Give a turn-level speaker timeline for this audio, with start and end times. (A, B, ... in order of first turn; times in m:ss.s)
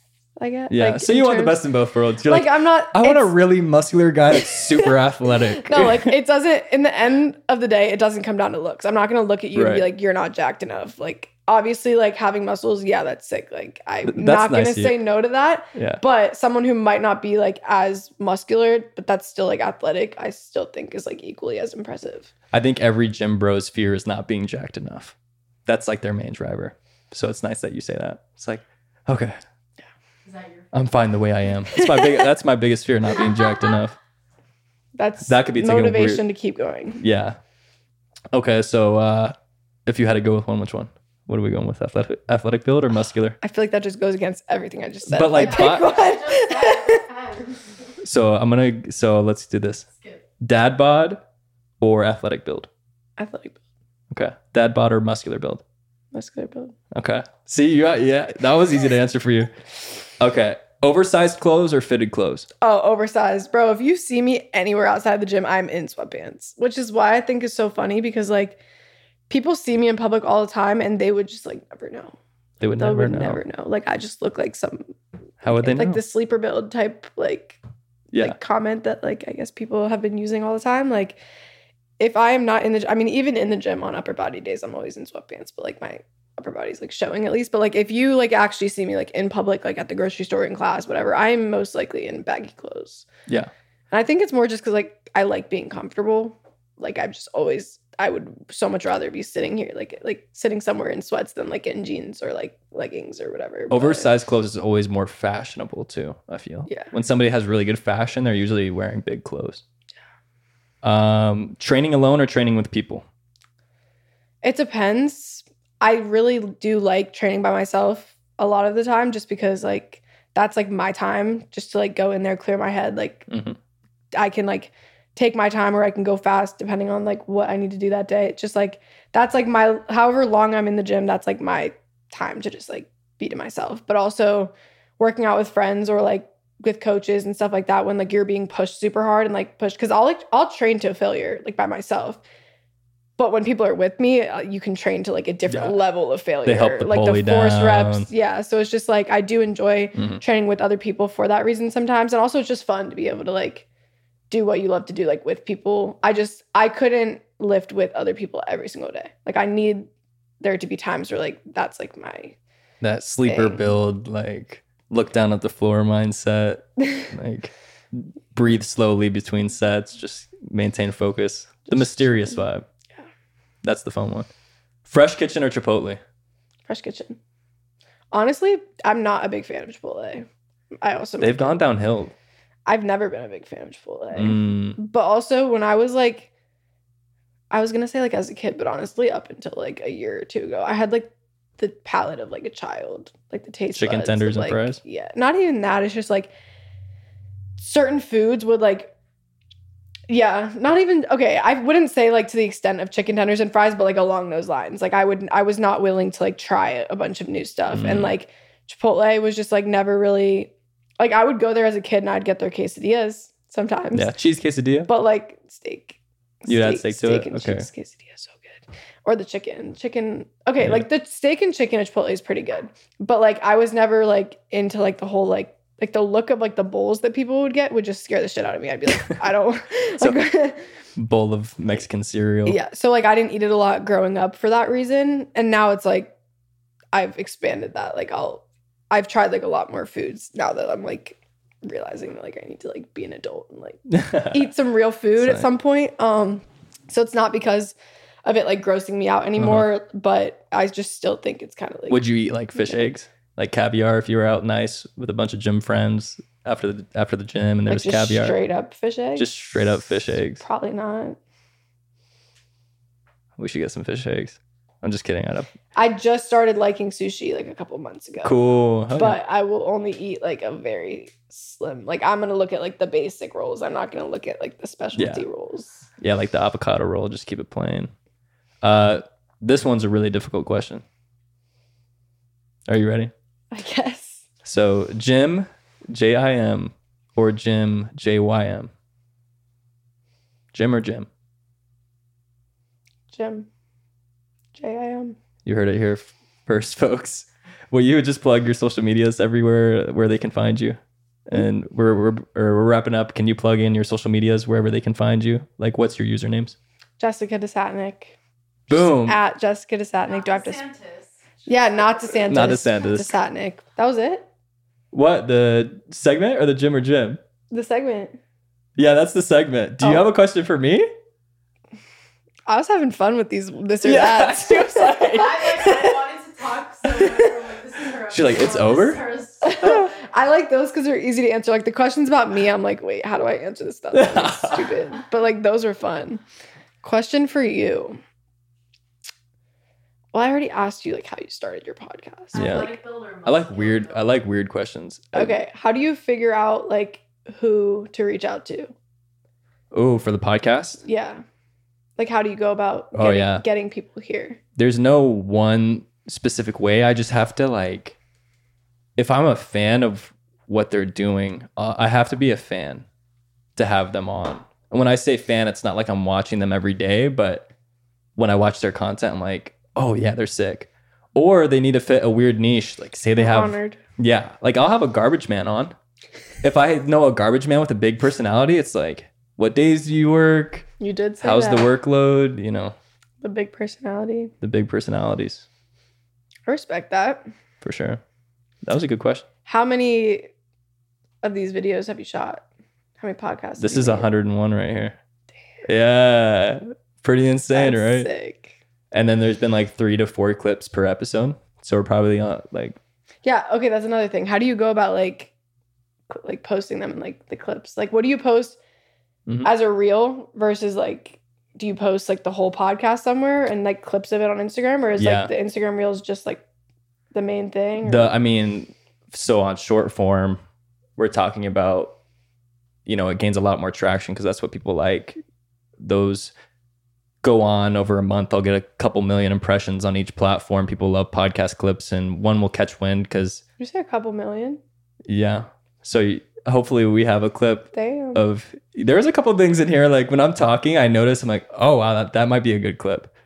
0:00.4-0:01.6 A
0:00.7-0:06.1 B
0:02.2-0:03.3 A
0:04.3-0:05.0 A
0:05.6-0:22.3 A
0:09.5-0:09.8 B
0:14.0-0:15.0 B
0:15.7-0:16.0 B
0:22.5-0:25.1 B
0:25.6-0:29.4 B
0:30.2-0:30.7 C
0:30.7-0:34.0 B
0:31.7-0:32.3 A
0:33.2-0:33.7 A
0:34.9-0:37.0 A
0:35.2-0:36.2 B
0:37.0-0:37.4 B
0:38.3-0:39.3 B
0:39.8-0:43.4 B
0:43.4-0:47.0 A
0:45.1-0:45.9 B
0:45.4-0:47.8 C
0:48.0-0:49.9 B
0:50.0-0:50.2 C
0:50.4-0:51.2 B
0:51.8-0:52.7 B
0:53.2-0:53.6 A
0:54.1-0:55.6 B
0:56.1-0:56.8 A
0:56.9-0:59.6 B
1:00.2-1:02.5 B
1:02.6-1:08.6 A
1:09.3-1:12.2 A
1:12.6-1:13.4 B
1:12.7-1:17.6 A
1:15.4-1:16.0 B
1:18.1-1:18.4 B
1:18.2-1:21.2 A
1:22.0-1:33.1 A
1:33.9-1:44.1 A
1:43.7-1:49.6 B
1:46.7-1:46.9 A
1:50.8-1:53.0 B
1:54.4-2:03.3 A
2:03.3-2:03.6 B
2:04.1-2:22.2 A
2:23.2-2:33.6 A
2:25.5-2:25.7 B
2:26.4-2:28.1 B
2:29.9-2:30.2 B
2:34.3-2:39.9 A
2:40.4-2:42.4 A
2:42.8-2:52.7 B
2:43.2-2:43.7 A
2:51.7-2:52.3 A
2:53.6-2:54.3 B
2:54.8-2:56.0 B
2:56.7-2:57.2 A
2:58.1-3:00.3 A
3:00.8-3:01.6 A
3:01.2-3:02.1 B
3:02.6-3:06.3 A
3:04.1-3:04.8 B
3:07.5-3:16.3 A
3:13.7-3:14.8 B
3:17.6-3:18.9 A
3:20.1-3:34.1 A
3:27.7-3:28.1 B
3:33.9-3:34.9 B
3:34.9-3:50.6 A
3:36.5-3:37.7 B
3:50.0-3:50.2 B
3:51.0-3:52.6 B
3:52.4-3:56.1 A
3:56.9-4:12.0 A
4:03.9-4:04.4 B
4:09.4-4:09.6 B
4:11.9-4:18.4 B
4:12.6-4:12.8 A
4:17.7-4:21.2 A
4:19.2-4:20.4 B
4:23.4-4:25.5 B
4:25.7-4:35.9 A
4:28.2-4:29.2 B
4:35.0-4:35.2 B
4:36.0-4:37.9 B
4:38.6-4:40.8 B
4:42.7-4:43.1 B
4:43.5-4:44.3 A
4:44.4-4:48.7 B
4:50.5-4:51.1 B
4:53.1-4:53.5 A
4:54.6-4:55.2 A
4:55.4-5:06.6 B
5:07.0-5:08.2 A
5:08.7-5:09.2 B
5:08.7-5:10.6 A
5:10.0-5:12.1 C
5:11.5-5:14.3 A
5:12.3-5:13.1 B
5:14.9-5:17.2 B
5:17.5-5:18.2 A
5:18.8-5:20.9 B
5:19.8-5:20.1 A
5:22.4-5:26.0 A
5:23.8-5:25.6 B
5:24.9-5:30.0 C
5:27.0-5:27.4 A
5:28.1-5:29.0 B
5:29.4-5:36.2 A
5:33.9-5:34.8 B
5:36.8-5:38.0 A
5:40.1-5:42.7 A
5:42.3-5:44.1 C
5:42.3-5:45.4 B
5:45.1-5:48.7 A
5:49.7-5:50.8 B
5:50.8-5:51.2 A
5:52.0-5:54.4 A
5:52.9-5:53.4 B
5:54.6-5:58.0 B
5:59.0-6:02.8 B
6:03.6-6:07.5 B
6:08.2-6:15.7 B
6:13.2-6:13.8 A
6:16.4-6:20.7 B
6:20.8-6:21.7 A
6:21.2-6:22.8 B
6:23.2-6:24.3 A
6:24.4-6:25.5 B
6:26.4-6:27.2 A
6:27.6-6:28.0 B
6:28.6-6:29.2 B
6:29.4-6:30.3 A
6:31.2-6:32.4 A
6:33.0-6:34.1 A
6:33.6-6:35.0 B
6:35.6-6:38.1 B
6:37.5-6:38.5 A
6:38.9-6:42.8 B
6:43.2-6:45.3 A
6:46.1-6:48.6 A
6:49.4-6:56.4 A
6:55.0-6:55.3 B
6:57.1-6:58.1 A
6:57.8-7:00.4 B
7:01.0-7:02.0 B
7:02.8-7:05.2 B
7:05.8-7:06.3 B
7:07.2-7:13.4 B
7:13.6-7:14.6 A
7:15.1-7:23.1 B
7:17.7-7:18.2 A